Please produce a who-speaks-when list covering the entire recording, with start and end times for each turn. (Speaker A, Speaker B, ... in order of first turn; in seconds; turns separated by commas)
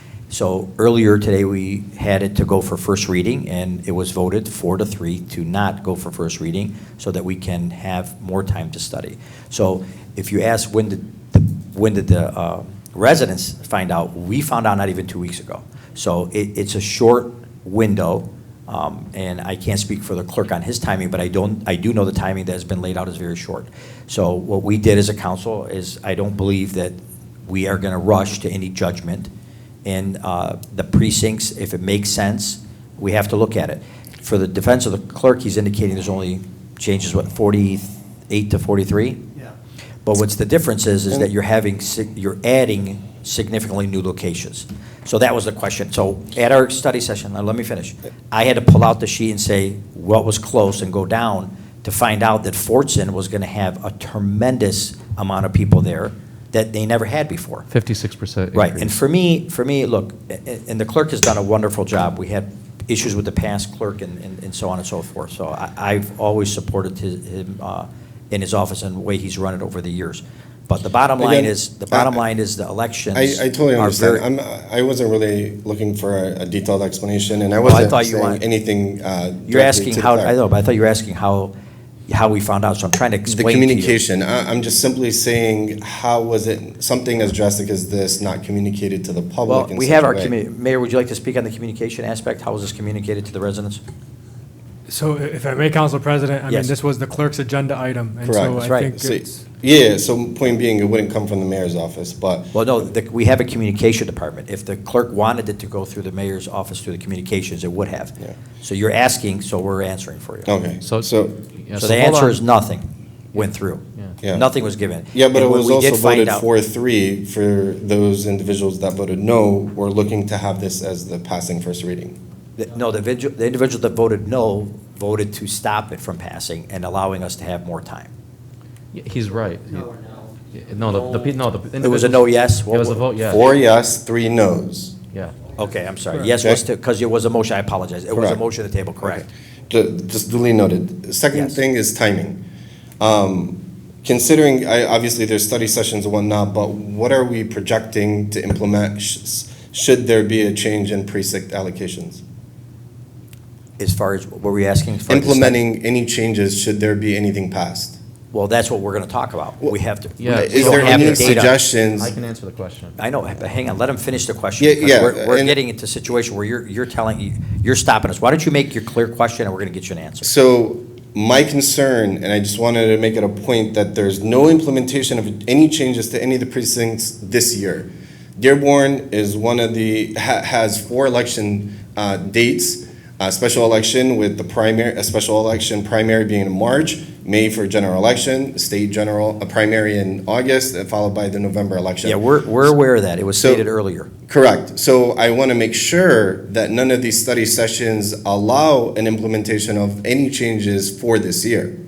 Speaker A: 0.3-29.3, Speaker A: 29.9-39.2, Speaker A: 40.0-57.7, Speaker B: 57.7-59.0, Speaker A: 58.5-74.2, Speaker C: 71.2-72.2, Speaker C: 73.2-80.3, Speaker A: 77.6-78.4, Speaker A: 79.5-81.5, Speaker A: 82.1-84.0, Speaker C: 83.3-90.3, Speaker A: 89.5-93.8, Speaker D: 94.9-99.5, Speaker A: 96.5-96.7, Speaker C: 98.2-102.6, Speaker A: 98.6-98.9, Speaker A: 102.5-110.5, Speaker C: 110.5-111.4, Speaker B: 110.8-112.4, Speaker A: 111.8-116.5, Speaker C: 114.2-114.5, Speaker C: 115.1-122.2, Speaker A: 122.6-128.1, Speaker B: 128.9-130.0, Speaker B: 130.5-133.5, Speaker A: 131.8-133.0, Speaker C: 133.2-135.0, Speaker A: 135.6-139.2, Speaker C: 138.1-138.4, Speaker C: 139.0-142.4, Speaker A: 141.3-141.6, Speaker C: 143.0-152.2, Speaker A: 153.8-155.6, Speaker C: 155.1-158.0, Speaker A: 158.3-161.6, Speaker B: 160.2-163.0, Speaker C: 160.3-162.1, Speaker A: 163.0-170.3, Speaker C: 164.6-165.6, Speaker C: 170.2-192.2, Speaker A: 192.0-194.1, Speaker C: 193.4-193.7, Speaker C: 194.3-201.7